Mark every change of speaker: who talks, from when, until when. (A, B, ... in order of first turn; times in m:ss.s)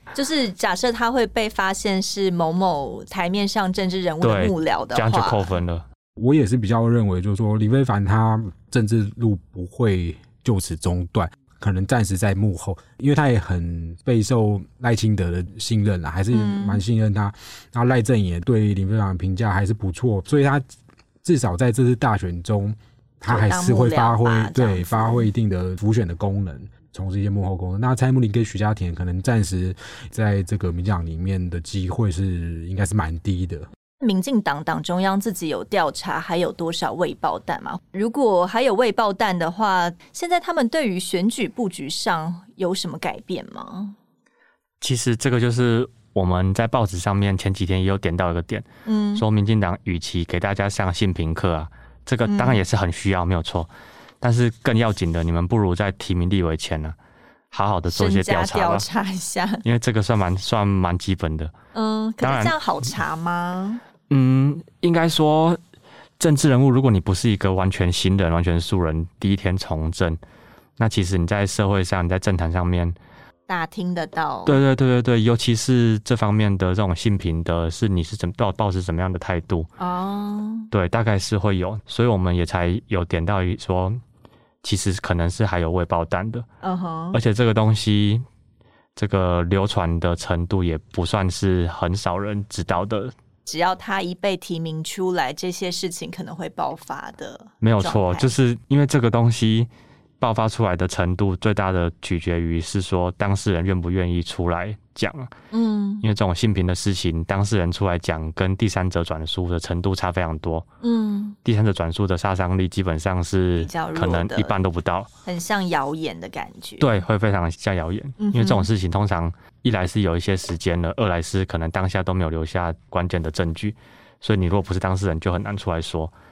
0:00.1-0:05.6 A
0:04.2-0:05.8 B
0:06.2-0:20.6 C
0:16.3-0:16.8 A
0:21.2-0:33.7 C
0:23.3-0:25.3 A
0:34.0-0:44.0 A
0:44.8-0:53.7 B
0:48.8-0:49.2 A
0:52.2-0:52.6 A
0:54.2-0:57.0 B
0:57.5-0:58.8 B
0:57.9-0:59.6 A
0:59.6-1:01.5 B
1:01.7-1:03.8 A
1:02.2-1:02.5 B
1:04.1-1:05.6 B
1:06.2-1:10.2 B
1:10.8-1:13.0 B
1:13.5-1:14.6 A
1:14.4-1:19.7 B
1:19.8-1:20.7 A
1:20.7-1:24.0 B
1:24.6-1:26.5 B
1:26.6-1:27.2 A
1:27.1-1:28.2 B
1:29.0-1:33.1 B
1:33.4-1:38.3 A
1:37.6-1:39.7 B
1:40.2-1:45.3 B
1:45.5-1:46.0 A
1:46.0-1:50.7 B
1:50.8-1:51.4 A
1:51.4-1:55.1 B
1:53.6-1:54.5 A
1:55.2-1:56.9 A
1:56.8-2:06.1 B
1:58.2-1:58.7 A